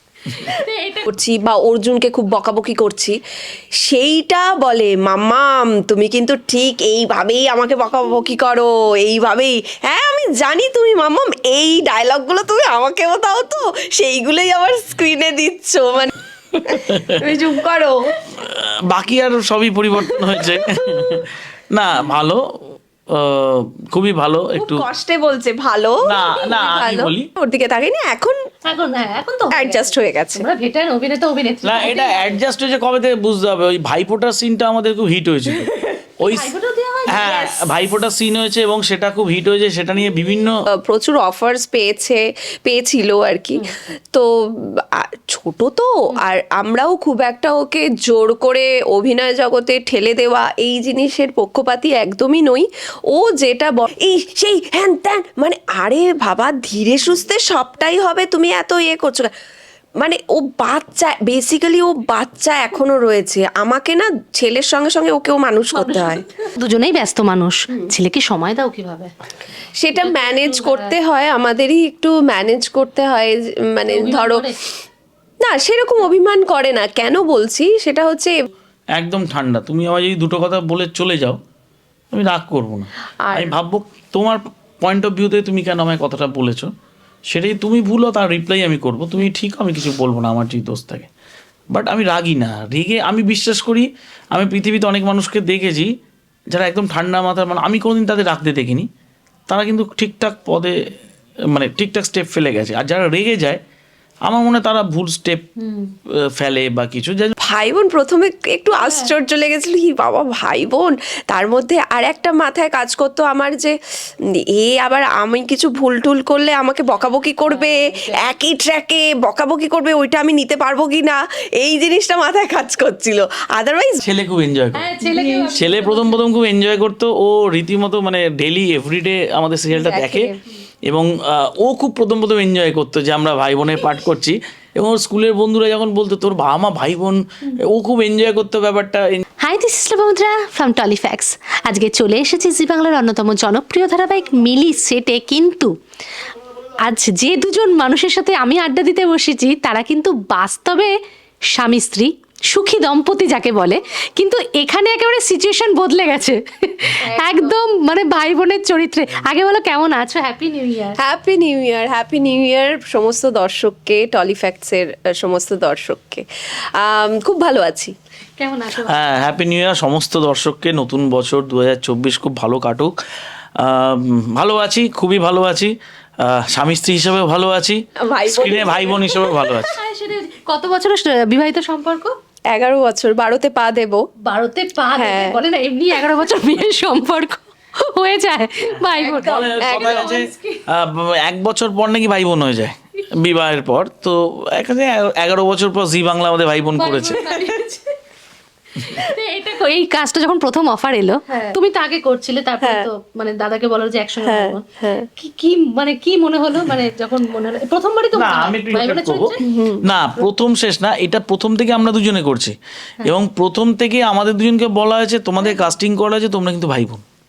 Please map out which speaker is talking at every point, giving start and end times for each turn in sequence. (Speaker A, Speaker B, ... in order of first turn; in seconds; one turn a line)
Speaker A: 0.3-1.1
Speaker B: 1.1-3.2
Speaker B: 3.8-16.1
Speaker C: 16.5-17.2
Speaker B: 16.7-18.0
Speaker C: 18.3-22.4
Speaker B: 20.1-21.1
Speaker C: 23.1-24.9
Speaker B: 24.6-28.4
Speaker C: 26.0-27.3
Speaker A: 28.7-32.4
Speaker B: 29.5-30.5
Speaker C: 31.6-36.5
Speaker B: 35.5-36.0
Speaker A: 36.2-37.7
Speaker C: 37.1-40.5
Speaker B: 40.7-59.3
Speaker B: 60.0-66.2
Speaker A: 65.8-69.1
Speaker B: 69.8-74.5
Speaker A: 70.0-71.0
Speaker A: 73.9-74.6
Speaker B: 75.4-78.3
Speaker C: 79.0-81.4
Speaker C: 82.1-86.7
Speaker B: 83.2-83.5
Speaker C: 87.3-91.1
Speaker C: 91.7-95.9
Speaker C: 96.5-98.9
Speaker C: 99.5-100.9
Speaker C: 101.5-103.6
Speaker C: 104.3-105.5
Speaker A: 105.6-106.0
Speaker C: 106.1-107.3
Speaker B: 107.4-124.0
Speaker A: 108.7-109.1
Speaker A: 117.5-118.2
Speaker C: 124.0-124.9
Speaker A: 124.8-126.2
Speaker B: 125.0-125.7
Speaker C: 125.5-130.3
Speaker B: 129.7-130.4
Speaker C: 130.9-139.2
Speaker A: 139.4-145.7
Speaker A: 146.8-150.9
Speaker A: 151.5-161.0
Speaker B: 157.0-157.5
Speaker B: 161.0-167.9
Speaker A: 168.4-169.1
Speaker C: 168.8-172.9
Speaker C: 173.6-179.8
Speaker B: 178.0-179.2
Speaker A: 179.1-182.1
Speaker B: 182.5-184.0
Speaker A: 184.2-190.6
Speaker B: 184.9-185.4
Speaker C: 188.7-197.2
Speaker B: 189.1-190.2
Speaker A: 196.8-198.0
Speaker A: 198.8-204.6
Speaker C: 198.8-199.1
Speaker B: 201.3-201.6
Speaker B: 202.6-202.9
Speaker B: 204.2-205.1
Speaker A: 205.2-209.4
Speaker C: 208.1-217.0
Speaker B: 209.4-209.8